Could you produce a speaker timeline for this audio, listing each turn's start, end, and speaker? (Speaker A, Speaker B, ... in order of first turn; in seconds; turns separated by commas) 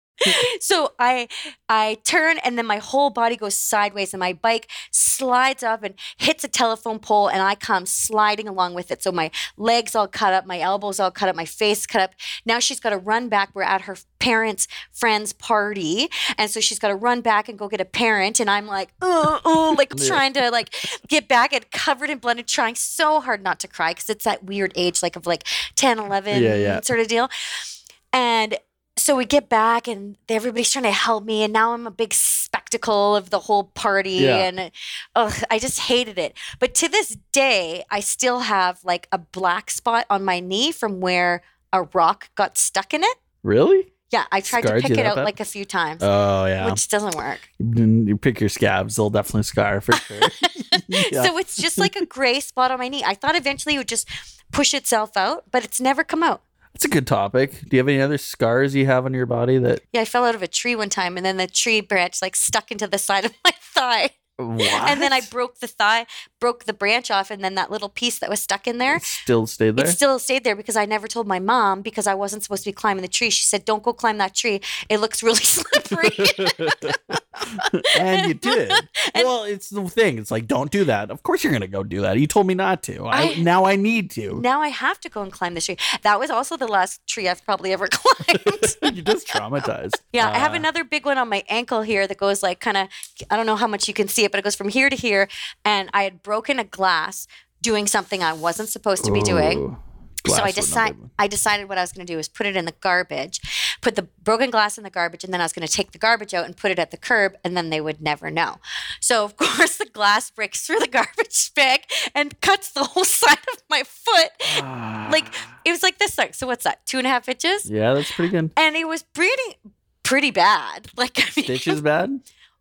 Speaker A: 0.2-43.2, Speaker B: 19.9-20.2, Speaker B: 26.3-26.8, Speaker B: 34.2-34.5, Speaker B: 43.4-43.9, Speaker A: 44.1-46.0, Speaker B: 44.5-45.3, Speaker B: 46.0-46.8, Speaker A: 46.6-47.5, Speaker B: 47.6-52.0, Speaker A: 50.0-56.4, Speaker B: 56.7-59.8, Speaker A: 59.9-69.0, Speaker B: 64.4-65.3, Speaker B: 68.9-70.0, Speaker A: 69.8-79.3, Speaker B: 76.0-84.4, Speaker A: 83.1-83.5, Speaker A: 84.3-88.9, Speaker B: 88.4-90.7, Speaker A: 90.1-99.6, Speaker B: 99.0-101.1, Speaker A: 100.2-117.7, Speaker B: 114.5-115.5, Speaker B: 117.7-118.5, Speaker A: 118.5-121.8, Speaker B: 121.4-122.2